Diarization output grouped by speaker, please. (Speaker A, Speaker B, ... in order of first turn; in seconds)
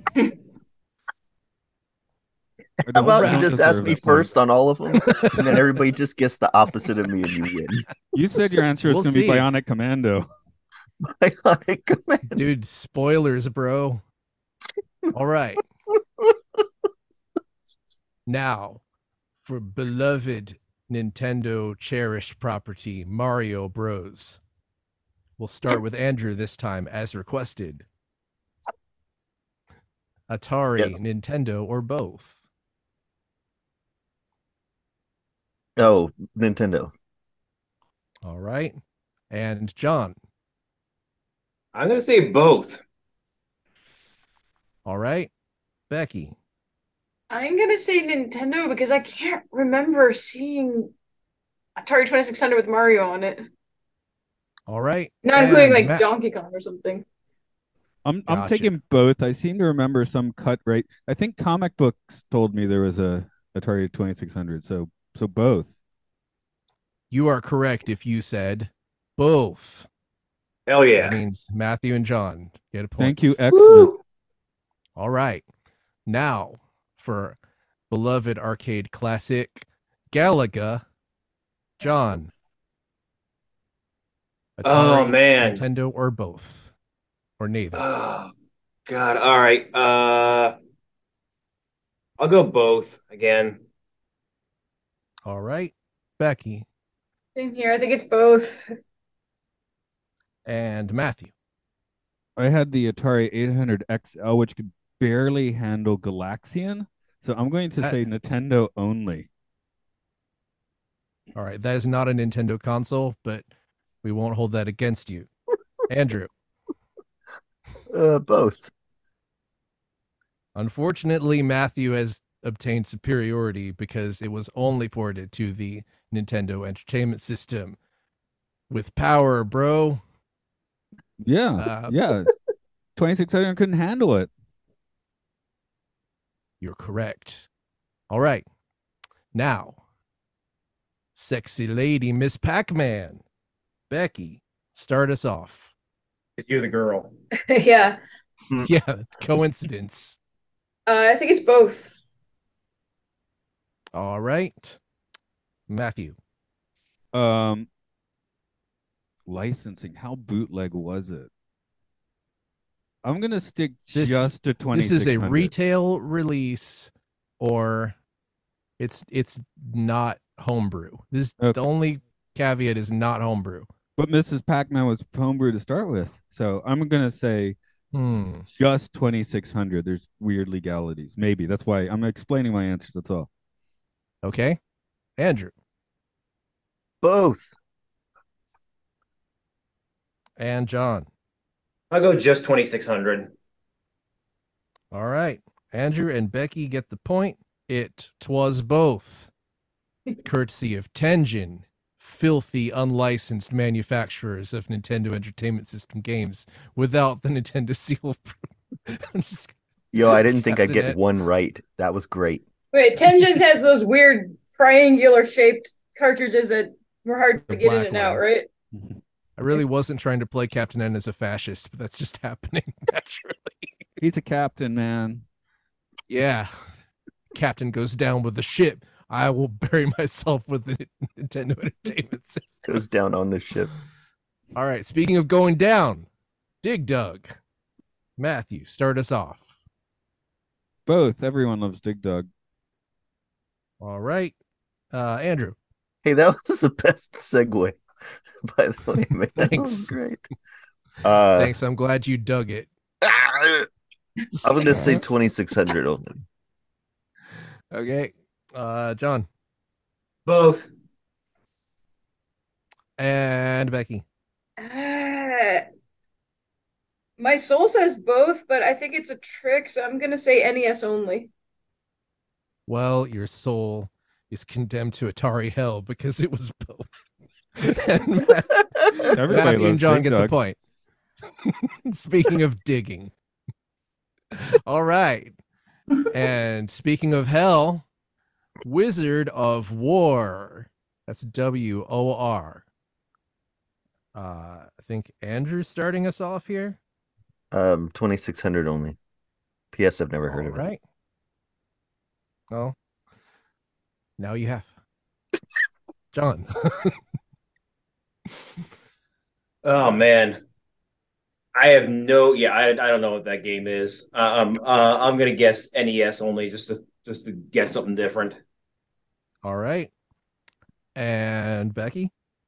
Speaker A: 2.8-7.9, 11.0-12.4, 35.8-36.9, 117.9-118.7, 187.0-187.5, 209.9-212.4, 232.6-233.7, 246.0-247.8, 248.4-250.2, 251.0-251.6, 253.0-253.7, 254.4-256.2, 297.5-299.0, 299.7-300.6
Speaker B: 2.9-4.3, 8.1-10.3, 58.0-65.7, 73.0-74.0, 102.4-109.3, 131.2-132.3, 132.9-134.3, 157.1-157.7, 159.2-161.3, 163.0-165.5, 174.0-177.6, 178.5-183.3, 218.8-219.0, 224.0-225.2, 240.9-242.3, 279.1-280.3
Speaker C: 3.1-3.9, 4.9-5.6, 8.8-9.5, 12.3-14.0, 15.1-15.6, 18.2-18.8, 19.4-24.4, 25.4-27.9, 30.3-32.4, 38.2-38.8, 39.3-40.1, 44.8-45.3, 45.9-46.4, 54.7-56.0, 58.3-58.8, 67.1-69.9, 71.0-73.4, 75.0-75.4, 76.1-77.4, 77.9-80.8, 81.8-82.3, 84.6-86.7, 87.4-87.9, 95.2-96.7, 100.4-101.3, 111.3-113.4, 114.0-115.3, 115.9-116.3, 120.6-127.8, 128.7-130.0, 131.6-131.9, 136.6-137.5, 138.1-138.4, 139.3-139.8, 141.1-143.2, 143.9-145.7, 148.6-150.2, 153.9-154.8, 155.7-156.2, 163.9-167.9, 168.8-173.7, 177.9-178.5, 184.2-184.6, 185.2-185.5, 190.4-191.1, 194.9-199.3, 200.2-208.4, 208.9-209.6, 210.2-211.0, 217.5-218.2, 219.4-223.7, 226.1-226.5, 227.3-232.7, 234.6-236.1, 236.6-237.3, 238.2-239.5, 243.8-244.3, 244.9-245.6, 249.4-249.9, 251.3-252.7, 254.6-255.0, 257.7-259.3, 263.0-264.0, 272.7-276.9, 277.6-280.6, 281.4-283.1, 284.3-285.3, 286.1-287.8, 288.6-292.6, 294.1-296.8, 300.3-300.8, 304.2-304.7, 306.1-306.9, 319.4-319.9, 320.9-322.1
Speaker D: 41.7-42.8, 70.7-71.2, 73.5-73.9, 84.6-85.6, 87.7-88.3, 88.9-90.5, 92.2-93.6, 146.4-147.1, 191.9-193.3, 260.2-260.7, 309.6-310.4, 311.5-318.4
Speaker E: 47.3-50.9, 51.8-53.5, 55.2-57.0, 97.3-98.7, 147.5-148.0, 150.9-152.0, 212.7-218.5, 264.6-265.6, 267.2-271.3